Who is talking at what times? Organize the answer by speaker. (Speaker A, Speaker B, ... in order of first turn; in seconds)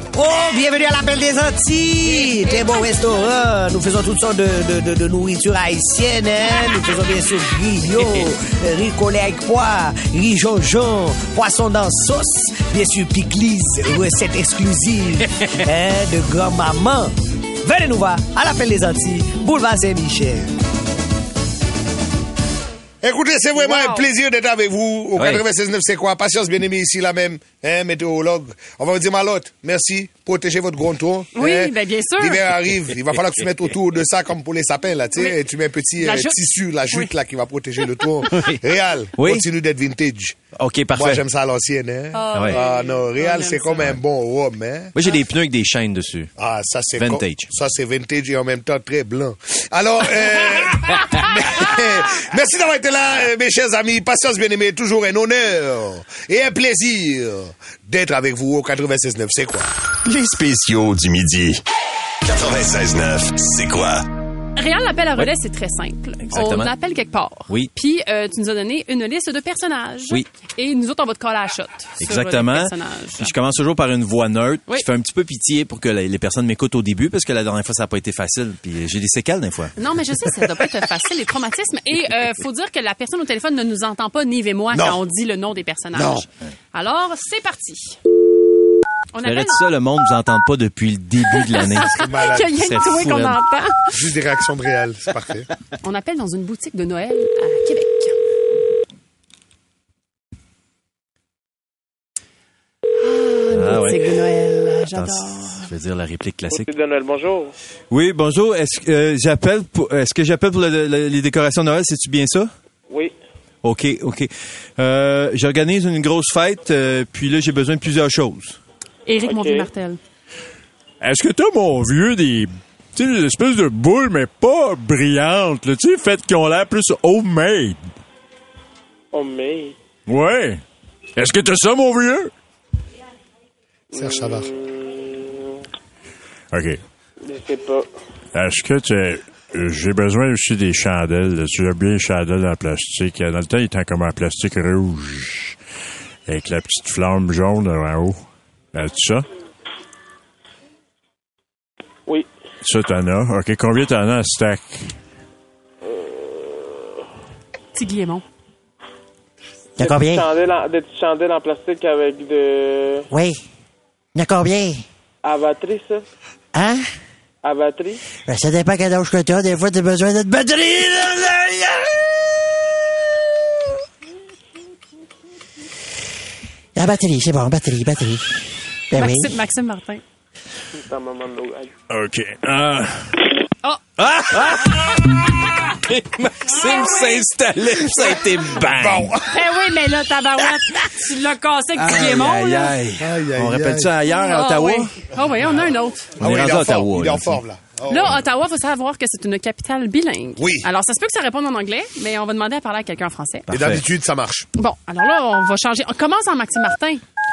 Speaker A: 0.1-20.5
Speaker B: 23.0-40.4, 40.9-44.9, 46.4-59.7, 84.7-85.0, 85.9-86.3, 91.9-92.5, 93.9-95.5, 133.9-134.5, 188.8-189.5, 193.0-193.9, 196.2-198.2, 200.4-200.7, 203.5-204.5
Speaker C: 23.6-24.1, 31.4-32.5, 36.0-37.1, 37.9-38.5, 42.1-43.9, 64.6-73.3, 79.8-88.0, 89.1-89.6, 91.5-94.0, 95.8-98.2, 103.0-105.7, 119.1-120.0, 157.8-158.2, 178.9-180.0, 189.3-192.8, 194.1-196.2, 197.9-203.5, 204.6-207.0
Speaker D: 25.2-25.4, 39.2-39.4, 40.6-41.2, 42.3-42.6, 44.9-46.3, 47.0-47.5, 66.3-66.7, 72.0-79.7, 89.2-93.4, 103.5-104.0, 104.9-106.7, 107.9-112.5, 113.6-118.6, 121.0-122.1, 125.6-127.8, 184.0-189.0, 191.8-194.9, 196.2-197.4, 203.5-203.9
Speaker E: 60.0-61.6, 62.2-64.1
Speaker F: 106.5-107.5, 112.9-113.2, 119.2-119.7, 129.1-129.8, 133.9-135.6, 137.2-137.9, 155.8-157.0, 159.8-163.1, 165.2-166.1, 167.4-168.0, 180.7-181.7
Speaker G: 121.9-125.6, 130.1-130.6, 131.2-132.3, 136.5-136.8, 138.3-145.6, 146.3-149.2, 152.6-154.9, 181.9-183.2, 186.5-189.1
Speaker H: 159.8-160.3, 163.1-163.4, 164.2-164.8, 166.5-166.9, 168.3-172.0, 176.8-179.3